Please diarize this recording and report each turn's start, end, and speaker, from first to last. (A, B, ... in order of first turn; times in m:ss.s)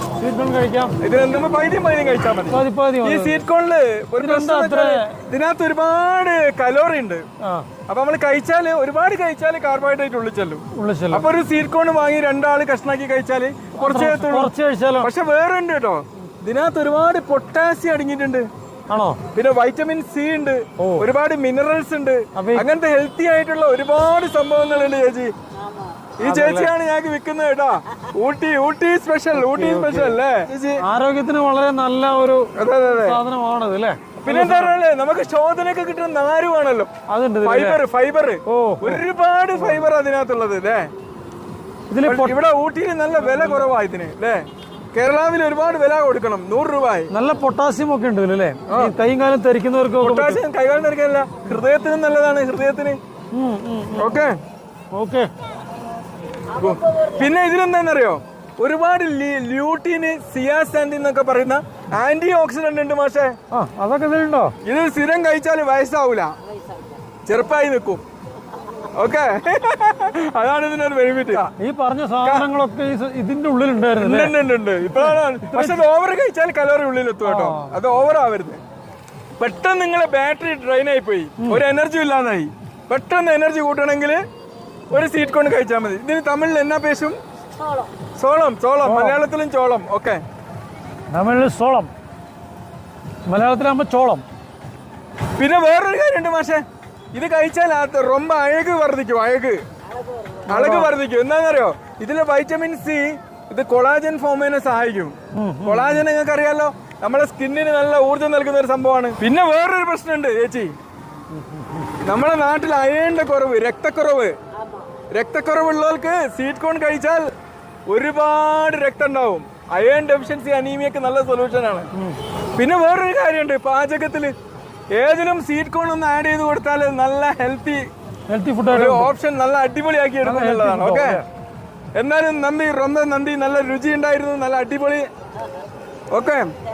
0:00.2-0:01.0 A
0:01.0-0:07.2 B
0:02.5-0:03.4 A
0:04.2-0:05.2 A
0:07.4-0:07.7 A
0:07.9-0:18.5 B
0:10.7-0:11.2 A
0:13.8-0:15.1 A
0:18.9-0:19.2 A
0:19.3-0:25.3 B
0:20.8-0:21.1 A
0:22.3-0:22.6 A
0:26.2-0:30.8 B
0:26.2-0:26.7 A
0:29.3-0:30.2 A
0:30.8-0:34.8 A
0:32.6-0:33.2 B
0:34.2-0:36.9 B
0:37.1-0:37.8 A
0:37.4-0:40.9 B
0:38.5-0:39.0 A
0:41.9-0:42.4 A
0:42.0-0:44.4 B
0:43.2-0:43.7 A
0:44.9-0:47.1 B
0:47.1-0:50.4 A
0:48.7-0:48.9 B
0:50.0-0:53.0 B
0:53.3-0:54.2 A
0:54.0-0:54.4 B
0:54.9-0:55.3 A
0:56.5-1:03.4 B
1:03.5-1:04.5 A
1:04.6-1:06.3 B
1:07.3-1:08.0 B
1:08.9-1:11.5 B
1:11.6-1:15.8 A
1:14.0-1:18.6 B
1:17.2-1:17.7 A
1:19.4-1:24.2 B
1:24.9-1:27.2 B
1:28.2-1:30.2 B
1:28.8-1:29.2 A
1:31.1-1:31.9 A
1:33.3-1:34.2 A
1:35.4-1:36.6 B
1:37.1-1:39.6 B
1:40.5-1:40.9 A
1:40.5-1:50.7 B
1:45.3-1:46.0 A
1:51.3-1:51.8 A
1:52.0-1:54.3 B
1:55.1-1:57.3 B
1:57.9-2:01.9 B
2:02.6-2:04.3 B
2:04.9-2:07.8 B
2:08.3-2:09.1 A
2:08.7-2:11.2 B
2:10.2-2:11.2 A
2:11.9-2:15.0 B
2:16.1-2:16.5 B